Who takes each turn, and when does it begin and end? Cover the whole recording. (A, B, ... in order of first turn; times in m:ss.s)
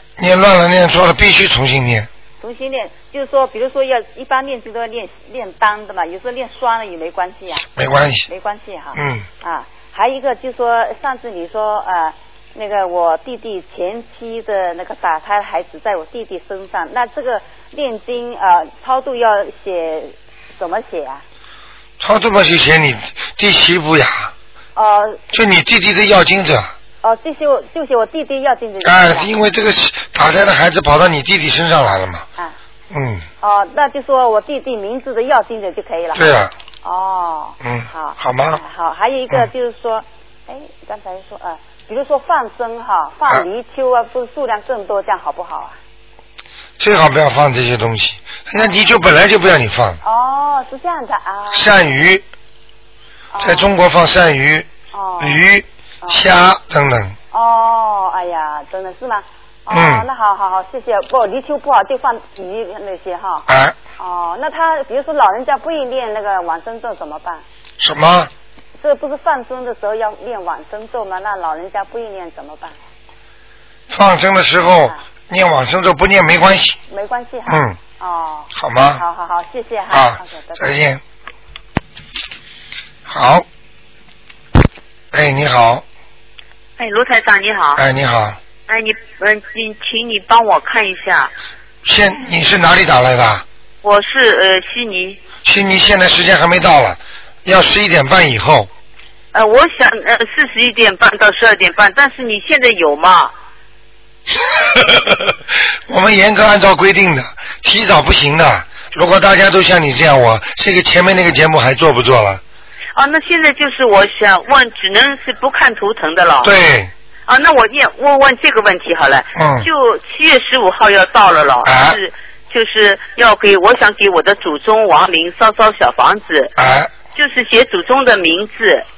0:00.2-0:02.1 A
0:02.4-0:07.7 B
0:07.8-0:08.3 A
0:08.2-0:21.2 B
0:08.9-0:09.2 A
0:22.0-0:24.3 A
0:24.8-0:25.2 B
0:25.3-0:26.7 A
0:27.0-0:29.3 B
0:28.8-0:32.2 A
0:32.9-0:33.2 A
0:33.4-0:36.3 B
0:36.2-0:36.5 A
0:36.8-0:45.8 B
0:37.6-0:38.6 A
0:46.8-0:50.0 A
0:50.0-0:51.8 B
0:51.5-0:52.2 A
0:53.3-0:53.7 B
0:53.4-0:54.7 A
0:54.9-0:55.4 B
0:55.2-0:57.2 A
0:57.3-1:03.5 B
0:59.7-1:00.1 A
1:03.5-1:03.8 A
1:04.0-1:07.4 B
1:07.8-1:08.3 A
1:08.8-1:12.8 B
1:13.9-1:16.8 A
1:16.9-1:20.8 B
1:17.5-1:17.8 A
1:18.5-1:19.0 A
1:19.9-1:21.0 A
1:23.0-1:23.4 A
1:25.1-1:25.8 A
1:26.8-1:27.8 C
1:27.8-1:28.4 A
1:28.7-1:31.3 C
1:31.8-1:33.4 A
1:33.8-1:35.2 C
1:35.4-1:38.7 A
1:39.3-1:43.3 C
1:44.7-1:45.3 A
1:45.9-1:52.4 A
1:52.9-1:56.5 C
1:56.4-1:56.9 A
1:57.2-2:06.6 C
1:59.3-1:59.7 A
2:01.6-2:02.0 A
2:06.6-2:06.9 A
2:07.1-2:08.8 C